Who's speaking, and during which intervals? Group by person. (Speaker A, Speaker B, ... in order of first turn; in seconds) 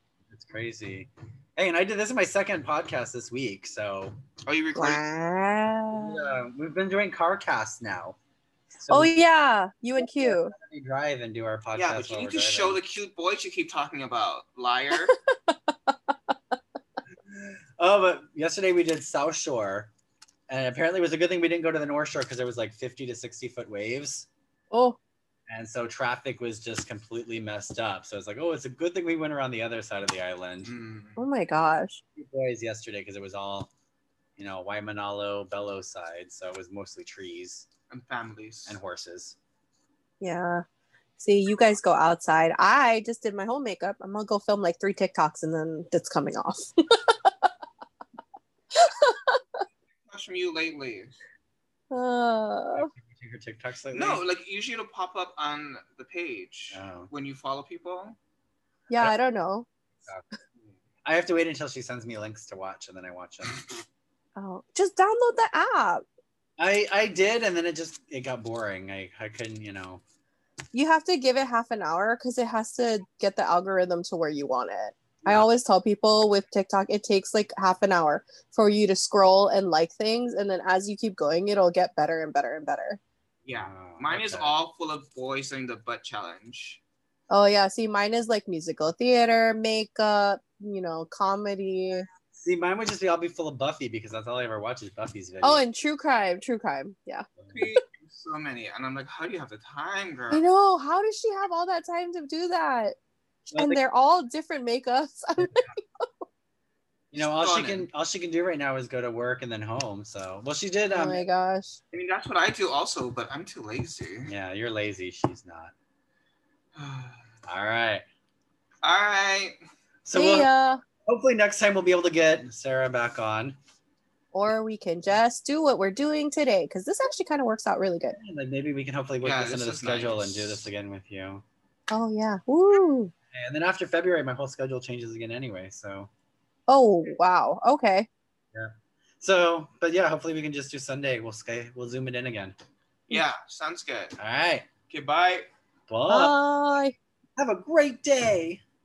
Speaker A: 0.3-4.2, 5.9-8.2, 8.8-9.1, 10.0-12.8, 17.3-19.9, 20.5-24.3, 25.5-30.7, 32.2-33.7, 34.4-37.7, 38.7-39.4, 52.7-54.2, 56.7-57.1, 61.0-63.6, 66.6-70.0, 83.5-84.5, 92.3-95.6, 97.4-97.6, 103.5-103.8, 107.1-111.2, 114.3-115.7, 117.5-118.0, 120.0-120.5, 121.1-123.6, 128.1-131.4, 133.3-136.1, 138.5-142.6, 144.2-144.7, 145.9-146.4, 147.4-148.6
Speaker B: 4.5-5.0, 11.8-15.2, 30.6-31.2, 37.9-38.8, 50.1-51.1, 53.9-58.2, 83.5-86.8, 97.5-100.5, 107.2-107.9, 111.9-114.3, 116.8-117.3, 118.8-119.6, 129.2-130.6, 143.1-144.2, 144.9-145.5
Speaker C: 4.8-6.3, 8.9-10.5, 15.1-15.9, 24.7-25.0, 31.2-32.0, 40.2-40.6, 41.2-47.5, 48.7-49.4, 51.9-52.9, 58.9-59.7, 64.4-66.0, 70.7-83.0, 87.3-92.1, 95.4-97.3, 100.3-103.0, 103.5-106.1, 110.9-111.8, 120.1-120.8, 124.3-128.2, 131.9-133.1, 136.7-138.1, 146.1-147.0